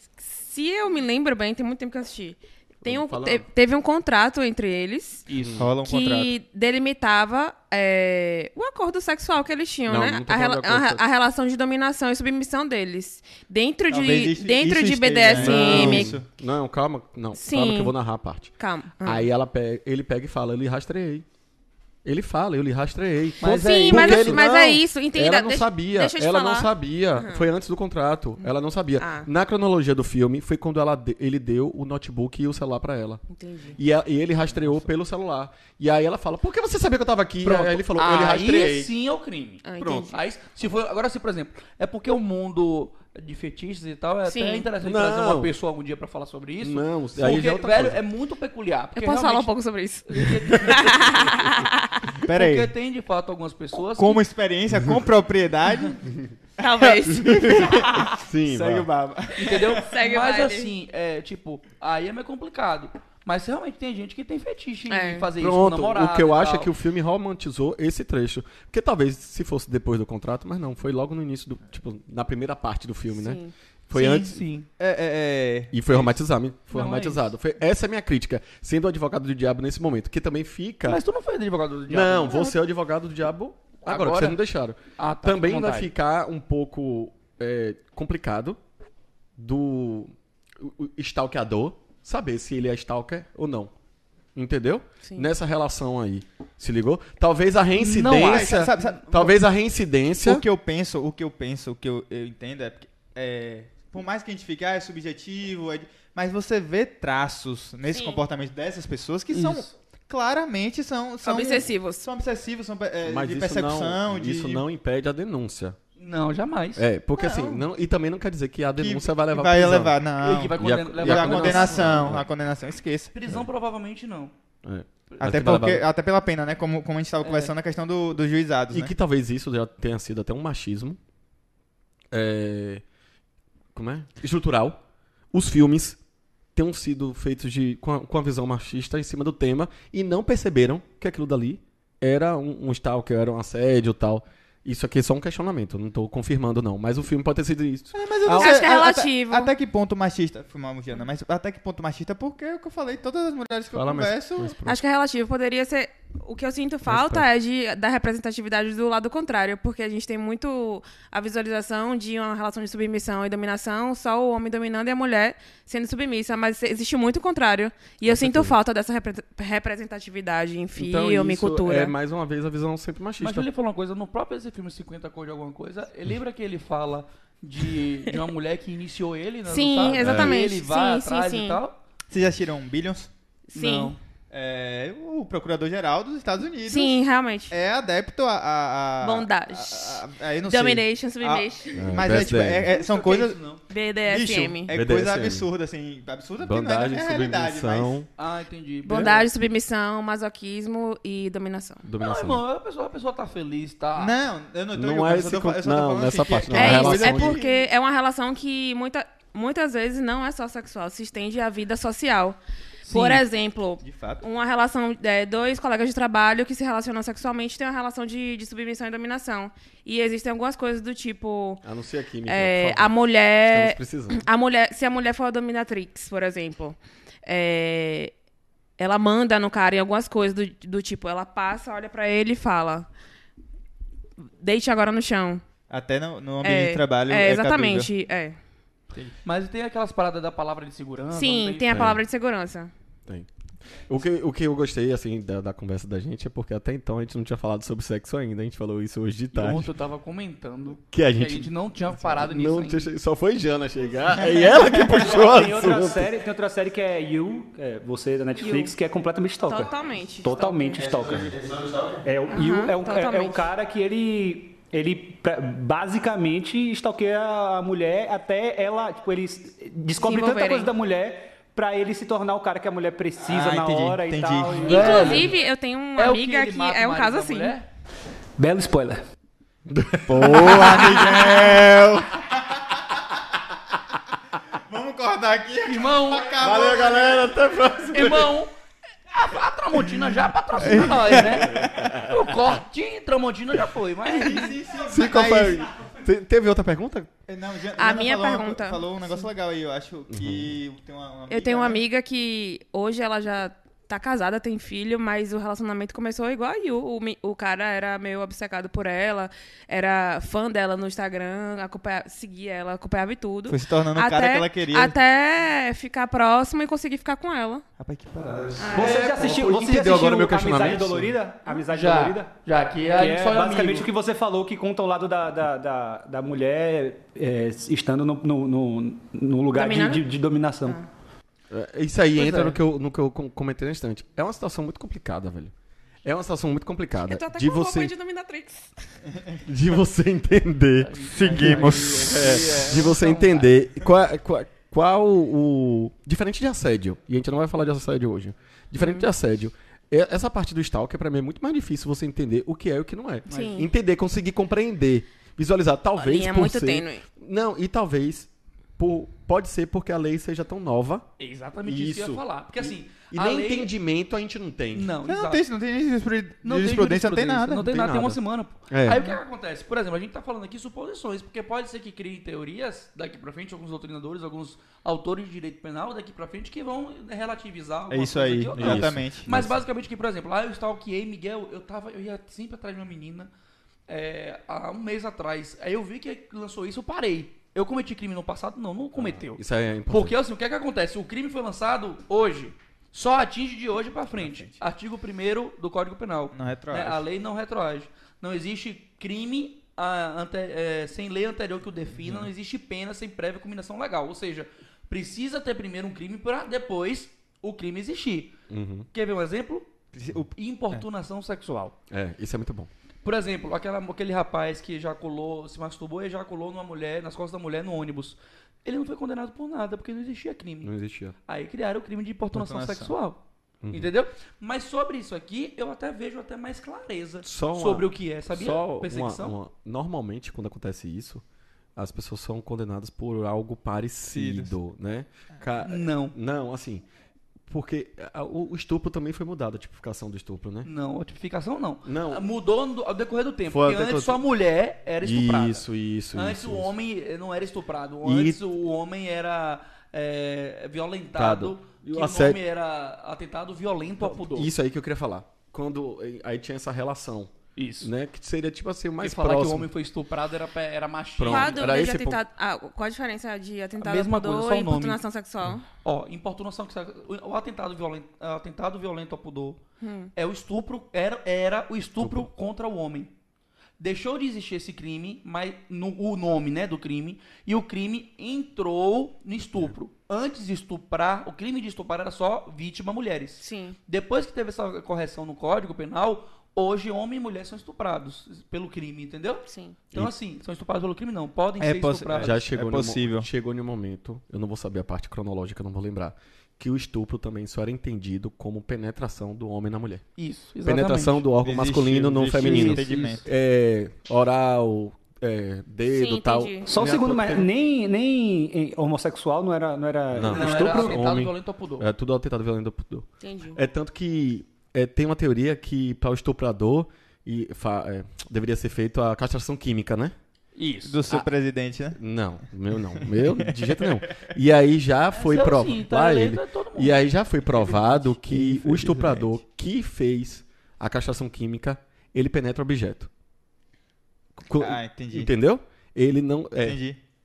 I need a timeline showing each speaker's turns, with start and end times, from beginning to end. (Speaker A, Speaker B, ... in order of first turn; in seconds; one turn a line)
Speaker A: 0.2-5.2
Speaker B: 2.8-3.5
Speaker C: 5.3-5.7
Speaker B: 5.4-5.7
Speaker D: 5.6-6.3
Speaker A: 5.8-16.2
Speaker B: 9.9-11.0
Speaker D: 13.9-16.2
Speaker B: 15.3-18.5
Speaker A: 17.3-17.9
Speaker A: 18.6-19.3
Speaker B: 19.0-21.2
Speaker B: 22.0-33.2
Speaker C: 23.4-24.4
Speaker A: 23.4-27.5
Speaker A: 29.0-29.3
Speaker A: 33.3-33.8
Speaker B: 33.7-38.9
Speaker C: 37.4-49.5
Speaker A: 39.6-40.1
Speaker B: 39.8-40.0
Speaker A: 44.2-44.7
Speaker B: 44.8-45.5
Speaker B: 46.6-48.0
Speaker A: 48.9-52.1
Speaker C: 50.0-51.5
Speaker D: 52.2-52.7
Speaker C: 52.3-54.2
Speaker D: 54.0-56.0
Speaker B: 54.7-55.0
Speaker A: 56.6-58.2
Speaker D: 56.6-59.8
Speaker B: 57.3-58.9
Speaker C: 59.4-66.7
Speaker A: 59.7-60.7
Speaker A: 64.9-65.3
Speaker B: 65.4-73.4
Speaker A: 73.1-73.5
Speaker C: 73.9-74.7
Speaker D: 73.9-76.1
Speaker B: 75.7-81.0
Speaker C: 76.7-77.3
Speaker C: 80.8-82.5
Speaker B: 81.9-88.6
Speaker C: 83.8-84.4
Speaker C: 85.0-85.9
Speaker B: 89.4-93.7
Speaker B: 94.3-100.4
Speaker C: 97.8-99.0
Speaker D: 98.2-99.3
Speaker D: 100.2-114.6
Speaker A: 107.8-108.2
Speaker C: 109.3-109.7
Speaker A: 111.2-112.1
Speaker B: 113.0-115.8
Speaker C: 116.0-116.8
Speaker B: 116.8-120.0
Speaker D: 117.2-117.6
Speaker D: 118.8-123.1
Speaker C: 120.2-122.1
Speaker B: 120.5-122.3
Speaker C: 123.1-124.3
Speaker B: 124.6-125.8
Speaker D: 125.2-128.9
Speaker C: 127.2-127.5
Speaker B: 128.7-131.0
Speaker B: 132.1-132.8
Speaker B: 133.7-134.8
Speaker B: 135.3-136.0
Speaker B: 136.5-148.6
Speaker D: 147.9-154.6
Speaker A: 148.3-149.5
Speaker B: 153.7-154.8
Speaker A: 154.6-171.9
Speaker B: 156.8-157.2
Speaker B: 168.0-168.6
Speaker B: 170.8-173.5
Speaker C: 173.2-181.8
Speaker A: 179.5-181.6
Speaker B: 180.0-180.3
Speaker D: 182.1-183.1
Speaker A: 183.5-183.9
Speaker C: 183.5-184.0
Speaker D: 184.3-187.0
Speaker A: 186.7-187.6
Speaker D: 187.5-193.4
Speaker A: 189.0-192.1
Speaker B: 191.8-192.7
Speaker C: 192.7-193.6
Speaker A: 193.7-194.7
Speaker D: 194.1-198.0
Speaker B: 194.7-195.5
Speaker B: 196.4-198.1
Speaker C: 198.2-199.3
Speaker A: 198.8-201.8
Speaker B: 201.8-202.4
Speaker C: 202.0-204.1
Speaker D: 203.9-207.6
Speaker B: 204.7-207.4
Speaker A: 206.5-221.6
Speaker C: 212.8-213.2
Speaker D: 213.8-214.2
Speaker B: 221.6-224.2
Speaker A: 222.3-228.1
Speaker A: 228.8-232.9
Speaker A: 234.4-235.4
Speaker D: 235.7-237.9
Speaker A: 236.4-238.4
Speaker C: 239.2-241.8
Speaker A: 241.1-242.7
Speaker B: 241.7-242.0
Speaker B: 243.9-249.7
Speaker C: 249.3-252.9
Speaker B: 250.9-256.1
Speaker E: 254.9-261.4
Speaker A: 258.4-258.7
Speaker A: 259.4-260.8
Speaker B: 260.8-261.9
Speaker E: 262.0-275.2
Speaker A: 262.3-263.4
Speaker A: 270.0-270.7
Speaker D: 273.2-275.2
Speaker C: 274.6-275.3
Speaker A: 274.7-277.5
Speaker C: 276.0-277.7
Speaker E: 278.4-279.0
Speaker B: 279.7-281.7
Speaker D: 280.1-283.0
Speaker D: 284.7-287.4
Speaker C: 285.6-286.4
Speaker B: 286.4-288.3
Speaker C: 287.9-288.5
Speaker C: 289.1-294.6
Speaker D: 289.8-292.0
Speaker B: 290.6-292.6
Speaker D: 294.1-295.6
Speaker B: 294.7-297.1
Speaker D: 297.3-301.8
Speaker A: 297.8-299.3
Speaker B: 300.1-300.6
Speaker A: 301.3-317.6
Speaker D: 313.5-315.0
Speaker D: 317.8-318.8
Speaker A: 318.6-319.1
Speaker E: 318.7-322.3
Speaker B: 318.8-321.1
Speaker C: 321.6-323.9
Speaker E: 322.9-330.8
Speaker A: 329.5-330.0
Speaker B: 331.5-335.5
Speaker C: 332.1-332.5
Speaker B: 336.0-337.9
Speaker A: 337.1-339.0
Speaker B: 339.4-361.1
Speaker C: 340.8-343.5
Speaker D: 341.1-342.3
Speaker A: 348.8-349.1
Speaker A: 353.3-353.7
Speaker A: 356.0-357.0
Speaker C: 361.2-363.7
Speaker B: 361.6-364.9
Speaker C: 364.7-365.4
Speaker D: 365.0-367.7
Speaker C: 366.4-383.3
Speaker B: 367.6-369.1
Speaker D: 377.9-379.3
Speaker B: 378.5-379.6
Speaker C: 383.9-408.4
Speaker B: 388.9-390.1
Speaker D: 394.2-394.5
Speaker D: 396.3-397.0
Speaker B: 408.5-408.9
Speaker C: 408.9-409.7
Speaker D: 409.9-410.8
Speaker C: 410.3-411.8
Speaker B: 411.9-412.7
Speaker C: 413.0-420.7
Speaker B: 420.6-421.1
Speaker C: 421.2-429.4
Speaker D: 422.3-422.9
Speaker B: 423.6-423.9
Speaker B: 427.2-431.2
Speaker B: 431.8-436.8
Speaker D: 434.1-434.5
Speaker C: 435.6-436.1
Speaker B: 437.5-440.7
Speaker C: 440.6-454.5
Speaker B: 441.8-442.2
Speaker B: 443.5-444.2
Speaker B: 445.0-446.7
Speaker B: 448.0-448.4
Speaker B: 451.1-452.4
Speaker B: 454.0-459.7
Speaker C: 457.6-457.9
Speaker C: 459.0-461.7
Speaker B: 461.2-462.2
Speaker A: 461.3-465.6
Speaker C: 463.8-465.0
Speaker C: 465.8-469.6
Speaker A: 469.8-470.1
Speaker C: 470.1-473.1
Speaker B: 472.0-472.3
Speaker C: 473.8-492.4
Speaker A: 483.4-483.8
Speaker A: 489.5-489.8
Speaker D: 491.6-493.3
Speaker B: 492.1-500.1
Speaker C: 500.2-501.2
Speaker B: 500.6-507.5
Speaker D: 501.4-503.2
Speaker C: 502.3-503.2
Speaker A: 505.9-506.7
Speaker E: 506.6-510.9
Speaker B: 510.1-520.1
Speaker C: 510.2-511.9
Speaker A: 513.2-513.6
Speaker C: 520.5-521.1
Speaker D: 520.8-522.0
Speaker B: 521.9-533.1
Speaker D: 523.0-524.3
Speaker C: 525.1-527.0
Speaker D: 527.6-529.4
Speaker B: 534.4-536.8
Speaker D: 534.6-535.3
Speaker D: 536.6-537.0